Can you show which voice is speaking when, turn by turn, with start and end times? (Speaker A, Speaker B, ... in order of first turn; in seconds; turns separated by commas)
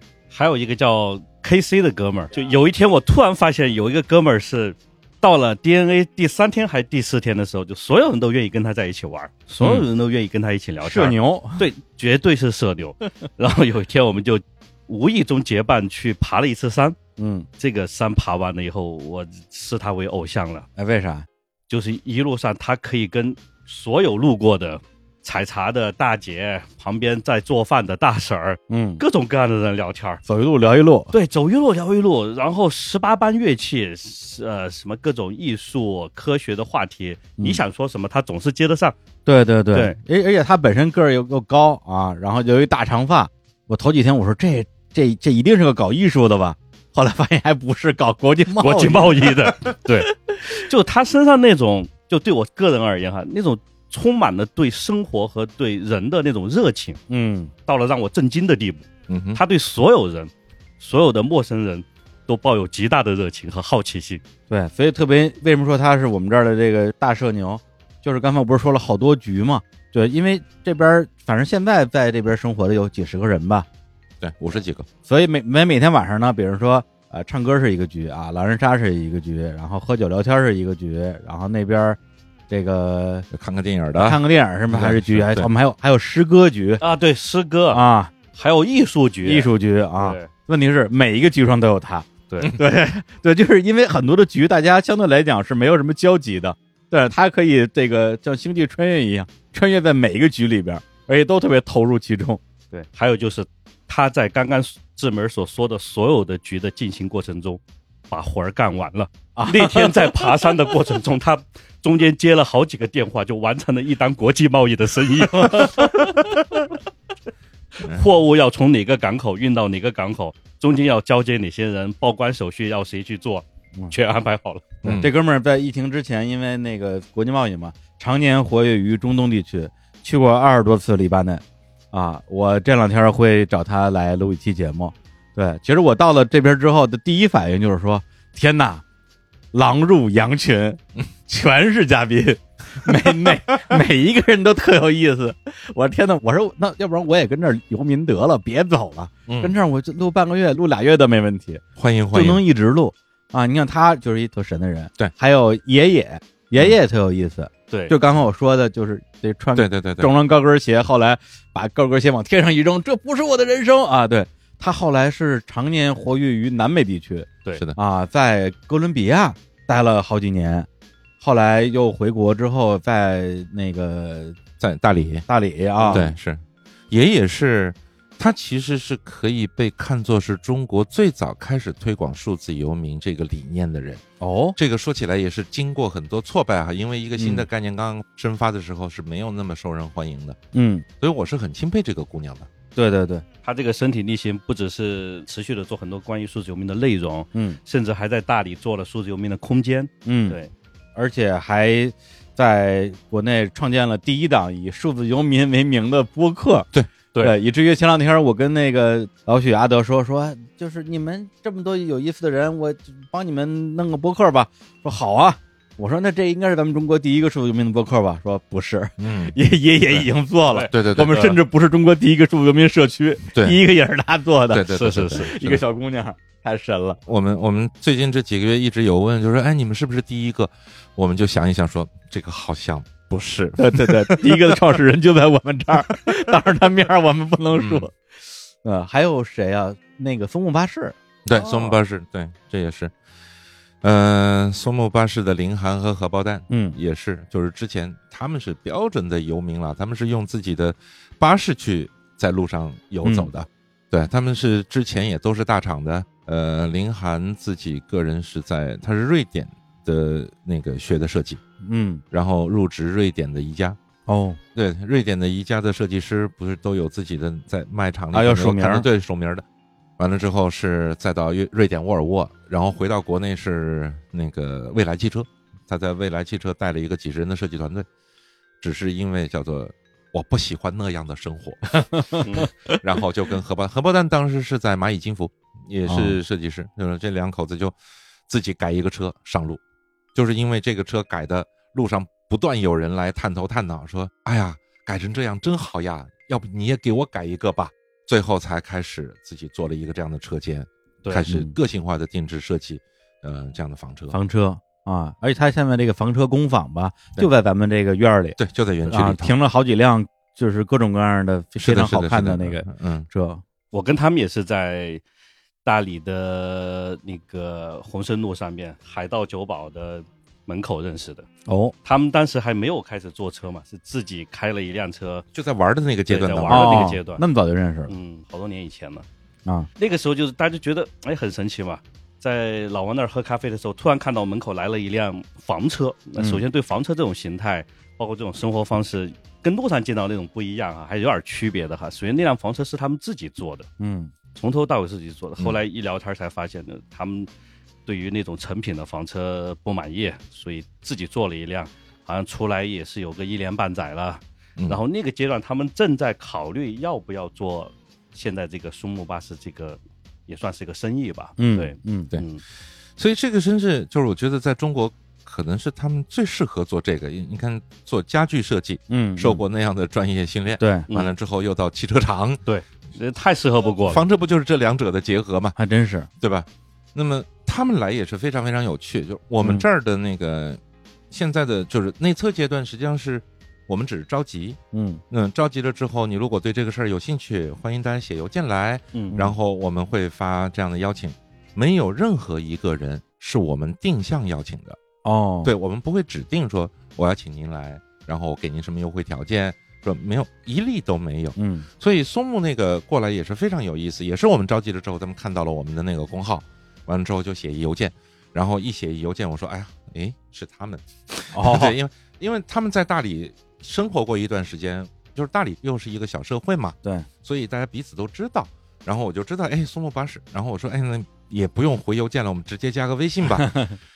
Speaker A: 0.3-17.0, Speaker B: 10.8-11.6, Speaker B: 17.2-17.5, Speaker A: 17.6-20.6, Speaker B: 20.8-21.3, Speaker A: 21.7-30.2, Speaker B: 28.7-29.0, Speaker B: 30.2-31.1, Speaker A: 31.1-38.9, Speaker B: 39.2-49.7, Speaker A: 48.5-57.0, Speaker B: 57.1-57.5, Speaker A: 57.7-64.2, Speaker C: 59.1-59.4, Speaker B: 64.5-73.7, Speaker C: 74.2-74.9, Speaker B: 75.0-82.0, Speaker B: 82.5-83.3, Speaker C: 83.3-84.2, Speaker B: 84.0-86.8, Speaker C: 84.7-85.5, Speaker A: 86.8-87.8, Speaker B: 87.7-88.1, Speaker A: 88.3-90.3, Speaker B: 89.2-102.4, Speaker A: 102.7-116.4, Speaker B: 109.3-110.4, Speaker A: 117.8-124.8, Speaker C: 124.8-125.1, Speaker B: 124.8-138.8, Speaker B: 139.5-170.7, Speaker C: 142.8-143.4, Speaker C: 149.3-149.5, Speaker C: 151.8-152.4, Speaker C: 159.5-160.1, Speaker B: 171.2-174.4, Speaker C: 174.6-175.2, Speaker B: 175.3-176.1, Speaker C: 175.9-184.0, Speaker B: 184.2-184.6, Speaker C: 184.6-190.4, Speaker B: 187.2-187.4, Speaker B: 190.5-190.8, Speaker C: 191.0-192.5, Speaker B: 192.8-193.2, Speaker A: 193.4-200.5, Speaker B: 200.1-200.4, Speaker B: 200.9-206.7, Speaker B: 207.2-227.0, Speaker C: 219.0-219.3, Speaker A: 220.5-221.3, Speaker C: 220.7-221.4, Speaker C: 223.3-223.6, Speaker C: 224.5-225.6, Speaker A: 224.7-225.3, Speaker C: 227.1-234.7, Speaker B: 233.6-237.9, Speaker C: 237.5-237.9, Speaker B: 238.6-241.7, Speaker C: 241.2-242.9, Speaker C: 243.8-261.4, Speaker B: 246.5-246.8, Speaker B: 253.0-253.3, Speaker B: 261.6-262.0, Speaker C: 262.1-263.8, Speaker B: 264.1-264.4, Speaker C: 264.5-269.4, Speaker B: 268.1-268.9, Speaker C: 270.0-277.9, Speaker C: 278.6-287.7, Speaker B: 281.8-282.8, Speaker B: 285.9-286.2, Speaker C: 288.3-289.6, Speaker C: 290.1-304.2, Speaker A: 301.0-301.3, Speaker B: 301.3-301.5, Speaker B: 304.1-313.4, Speaker C: 308.4-309.3, Speaker C: 311.6-313.1, Speaker A: 313.7-315.0, Speaker A: 315.6-321.3, Speaker B: 321.5-321.7, Speaker A: 321.8-325.2, Speaker C: 325.3-326.9, Speaker A: 326.1-327.2, Speaker B: 326.5-327.9, Speaker A: 327.9-329.0, Speaker A: 329.8-343.7, Speaker B: 336.2-336.4, Speaker B: 343.8-344.1, Speaker A: 344.3-347.3, Speaker A: 347.9-362.4, Speaker B: 361.4-362.1, Speaker C: 363.0-372.4, Speaker B: 368.9-369.4, Speaker B: 370.6-370.9, Speaker A: 372.5-374.0, Speaker C: 373.8-375.6, Speaker B: 375.6-376.1, Speaker C: 376.2-380.6, Speaker C: 381.1-384.6, Speaker B: 384.7-385.0, Speaker C: 385.1-394.8, Speaker B: 395.0-395.5, Speaker C: 395.4-423.6, Speaker B: 401.4-401.7, Speaker B: 411.3-411.8, Speaker B: 423.4-423.8